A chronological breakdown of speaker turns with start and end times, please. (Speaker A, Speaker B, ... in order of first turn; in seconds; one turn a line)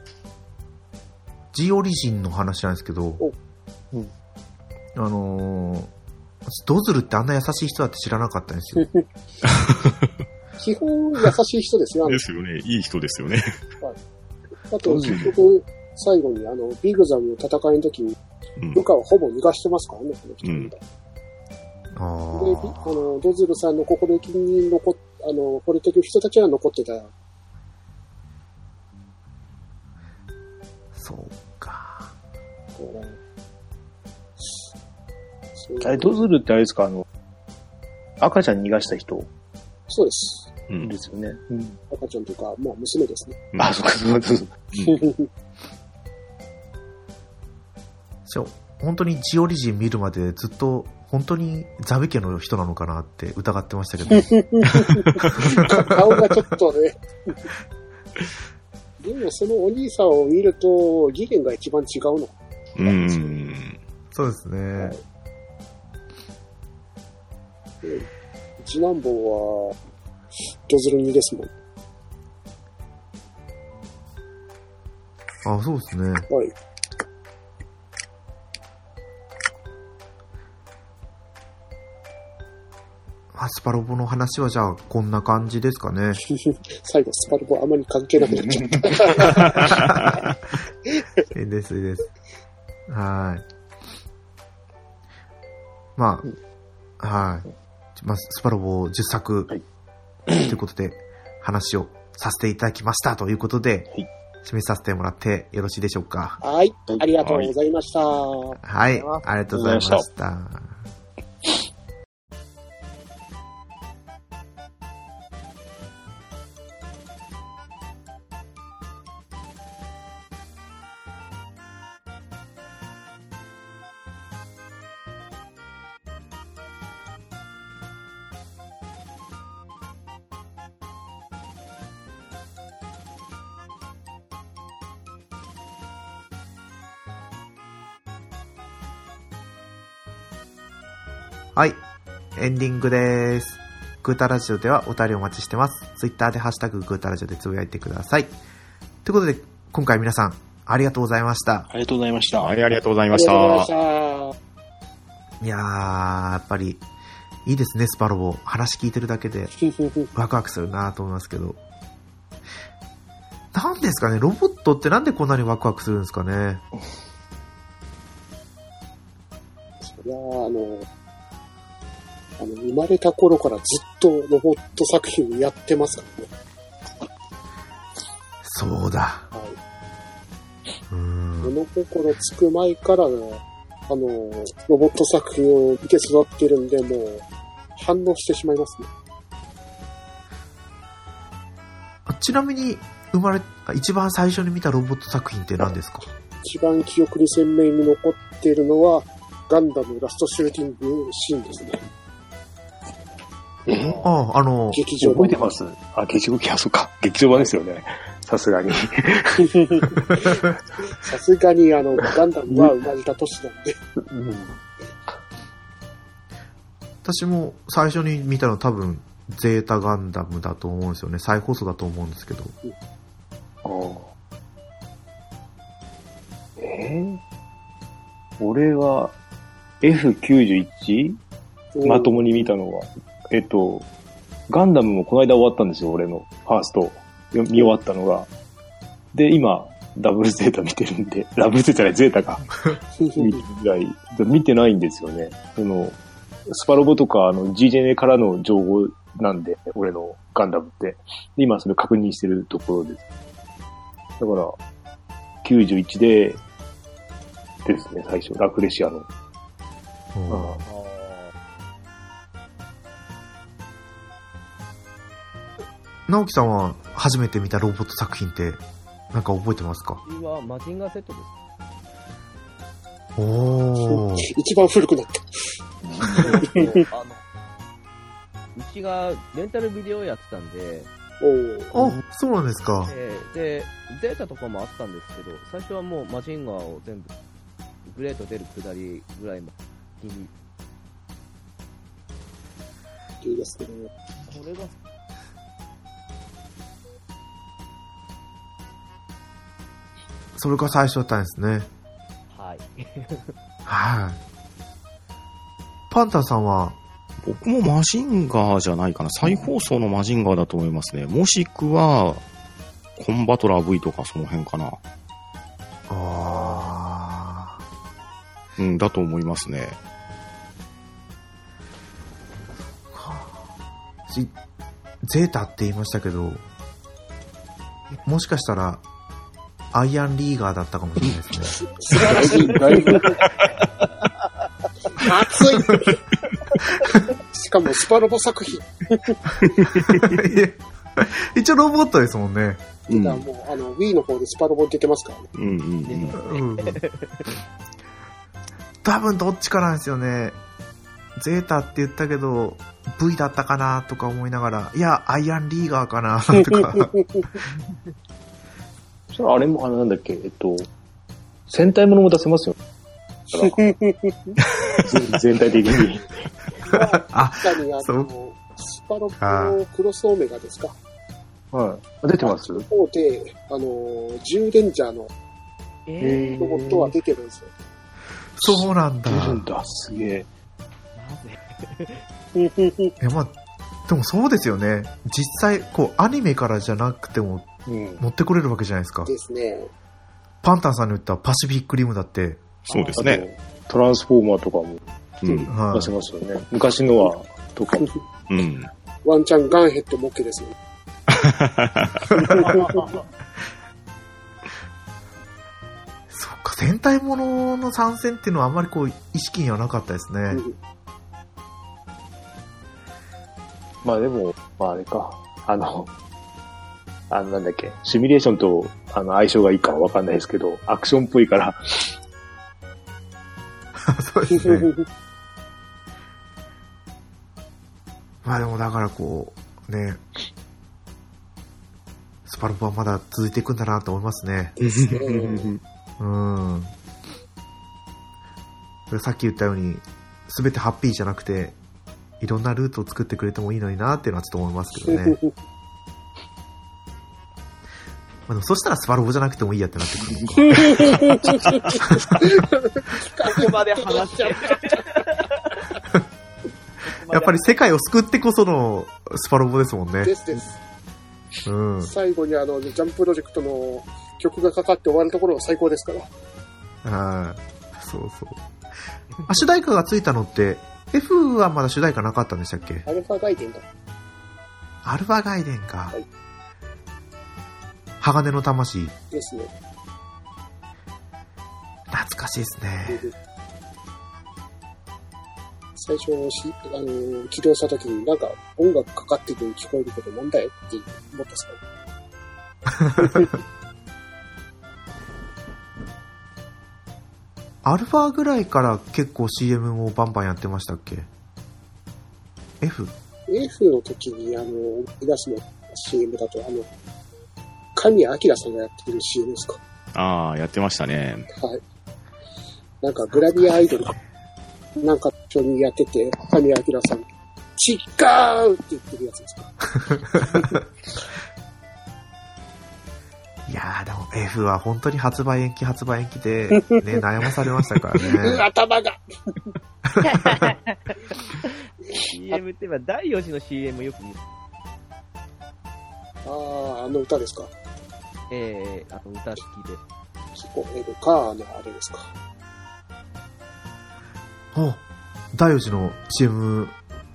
Speaker A: 1.5-3.2
Speaker A: 5.0-5.9
Speaker A: 6.5-8.9
Speaker B: 8.8-9.0
Speaker C: 9.4-10.1
Speaker B: 10.6-12.2
Speaker C: 12.1-13.6
Speaker B: 14.7-18.2
Speaker D: 14.8-15.3
Speaker C: 18.6-18.8
Speaker B: 18.7-20.8
Speaker C: 20.4-20.7
Speaker A: 21.9-23.1
Speaker B: 22.3-27.1
Speaker A: 30.9-32.1
Speaker B: 32.8-33.2
Speaker B: 35.6-36.1
Speaker D: 35.8-37.1
Speaker D: 38.2-39.3
Speaker B: 39.9-40.5
Speaker D: 40.8-41.8
Speaker B: 41.9-43.4
Speaker D: 43.6-44.5
Speaker B: 44.8-45.3
Speaker A: 48.3-54.3
Speaker B: 54.1-57.4
Speaker A: 55.4-56.0
Speaker B: 59.0-63.4
Speaker C: 62.8-63.8
Speaker A: 64.1-65.0
Speaker B: 67.8-68.1
Speaker B: 68.6-69.8
Speaker B: 70.7-71.5
Speaker A: 75.5-76.3
Speaker B: 76.3-76.5
Speaker A: 83.3-86.2
Speaker B: 86.5-90.2
Speaker D: 88.2-89.2
Speaker A: 91.3-92.1
Speaker A: 92.9-93.4
Speaker A: 96.0-96.3
Speaker A: 97.0-99.5
Speaker D: 100.3-100.6
Speaker A: 100.5-103.9
Speaker A: 104.4-106.4
Speaker B: 106.4-108.6
Speaker C: 107.2-107.5
Speaker A: 108.6-110.8
Speaker D: 109.2-110.1
Speaker A: 142.4-148.3
Speaker A: 149.0-151.7
Speaker D: 151.7-152.6
Speaker C: 152.4-153.7
Speaker B: 153.1-154.3
Speaker A: 155.4-156.8
Speaker A: 157.4-159.5
Speaker B: 159.7-160.1
Speaker A: 160.2-161.6
Speaker A: 163.5-166.6
Speaker B: 169.8-170.9
Speaker B: 172.4-176.3
Speaker A: 178.4-179.3
Speaker A: 180.9-181.6
Speaker B: 181.4-187.2
Speaker B: 187.8-188.9
Speaker A: 192.1-196.1
Speaker B: 196.4-201.8
Speaker D: 203.7-204.0
Speaker B: 203.7-204.1
Speaker A: 204.0-204.8
Speaker B: 204.7-205.5
Speaker D: 205.0-210.4
Speaker B: 209.6-210.3
Speaker B: 210.9-213.8
Speaker D: 212.5-212.8
Speaker D: 214.0-214.6
Speaker A: 217.0-222.6
Speaker D: 223.7-224.1
Speaker D: 226.6-227.2
Speaker D: 228.4-229.1
Speaker D: 229.8-231.2
Speaker B: 231.8-232.4
Speaker D: 231.8-233.9
Speaker D: 234.5-238.3
Speaker D: 239.1-242.6
Speaker B: 243.0-243.4
Speaker D: 243.2-253.0
Speaker D: 254.2-254.6
Speaker D: 255.4-256.4
Speaker D: 257.6-259.1
Speaker A: 260.1-260.6
Speaker D: 260.3-260.6
Speaker E: 260.7-261.3
Speaker A: 266.1-270.0
Speaker E: 270.0-271.3
Speaker A: 273.2-274.3
Speaker B: 273.9-275.3
Speaker D: 275.8-276.5
Speaker B: 276.1-276.8
Speaker E: 276.1-277.2
Speaker E: 278.6-280.9
Speaker B: 281.2-281.7
Speaker A: 281.7-282.9
Speaker E: 282.8-287.1
Speaker E: 287.9-290.3
Speaker B: 293.2-293.9
Speaker E: 294.3-294.8
Speaker A: 300.4-301.7
Speaker E: 302.3-303.4
Speaker A: 303.7-304.2
Speaker A: 305.9-306.8
Speaker C: 307.2-312.2
Speaker C: 313.0-314.8
Speaker A: 315.9-317.6
Speaker C: 318.6-319.8
Speaker A: 322.9-323.4
Speaker A: 324.1-324.3
Speaker A: 325.1-326.4
Speaker A: 328.1-328.8
Speaker A: 329.7-331.6
Speaker B: 331.6-333.1
Speaker D: 332.0-333.1
Speaker B: 334.9-336.0
Speaker B: 337.0-339.2
Speaker C: 339.6-340.1
Speaker A: 339.9-342.6
Speaker C: 342.9-343.2
Speaker B: 342.9-345.3
Speaker C: 345.4-346.2
Speaker E: 345.9-347.3
Speaker A: 346.2-346.8
Speaker A: 348.8-350.4
Speaker A: 351.2-356.9
Speaker B: 356.5-357.4
Speaker E: 357.5-357.9
Speaker D: 359.1-360.7
Speaker D: 361.5-362.6
Speaker B: 363.4-364.4
Speaker D: 364.8-366.2
Speaker B: 366.6-370.8
Speaker A: 366.7-368.1
Speaker A: 369.2-369.6
Speaker D: 371.5-372.7
Speaker B: 372.2-375.1
Speaker E: 375.9-376.4
Speaker D: 376.0-376.9
Speaker B: 376.4-377.5
Speaker A: 378.4-379.4
Speaker D: 378.4-380.3
Speaker E: 381.0-382.0
Speaker B: 382.4-382.9
Speaker A: 383.0-383.3
Speaker A: 383.9-387.5
Speaker D: 387.7-388.0
Speaker A: 388.0-389.1
Speaker B: 389.1-389.7
Speaker A: 390.4-392.4
Speaker C: 392.7-393.2
Speaker D: 392.9-394.8
Speaker C: 395.2-395.5
Speaker A: 395.5-395.9
Speaker D: 395.7-397.9
Speaker C: 398.3-398.7
Speaker B: 399.1-400.6
Speaker C: 401.1-402.1
Speaker B: 402.2-402.8
Speaker D: 402.2-403.0
Speaker A: 406.1-410.4
Speaker D: 413.8-415.9
Speaker D: 417.1-421.9
Speaker A: 423.8-424.7
Speaker B: 424.4-424.8
Speaker A: 428.2-430.0
Speaker A: 432.3-434.6
Speaker B: 434.6-435.5
Speaker C: 434.6-435.6
Speaker A: 436.0-436.7
Speaker A: 438.9-441.6
Speaker A: 442.2-445.2
Speaker B: 444.9-445.3
Speaker A: 448.3-450.9
Speaker B: 450.5-455.0
Speaker E: 453.3-455.6
Speaker E: 456.8-457.6
Speaker A: 457.1-460.1
Speaker B: 460.0-460.6
Speaker A: 461.5-461.9
Speaker B: 461.8-466.1
Speaker A: 466.8-468.4
Speaker A: 469.3-472.9
Speaker B: 472.9-473.6
Speaker A: 474.8-476.0
Speaker A: 478.0-478.9
Speaker B: 479.1-479.5
Speaker A: 481.9-483.1
Speaker B: 482.9-483.1
Speaker B: 485.8-491.6
Speaker B: 493.0-493.4
Speaker A: 497.6-501.1
Speaker A: 502.6-502.9
Speaker B: 503.3-506.7
Speaker B: 507.8-509.6
Speaker C: 509.9-511.3
Speaker B: 511.3-511.6
Speaker B: 512.8-514.0
Speaker A: 513.1-514.0
Speaker B: 514.8-517.0
Speaker B: 517.6-519.6
Speaker A: 519.8-520.6
Speaker B: 520.2-520.5
Speaker A: 523.5-528.4
Speaker B: 526.5-527.0
Speaker B: 528.0-529.4
Speaker E: 530.0-534.2
Speaker A: 530.1-530.5
Speaker B: 531.9-532.4
Speaker B: 536.2-537.5
Speaker E: 538.3-539.8
Speaker B: 540.4-542.1
Speaker A: 544.5-544.8
Speaker A: 545.3-546.8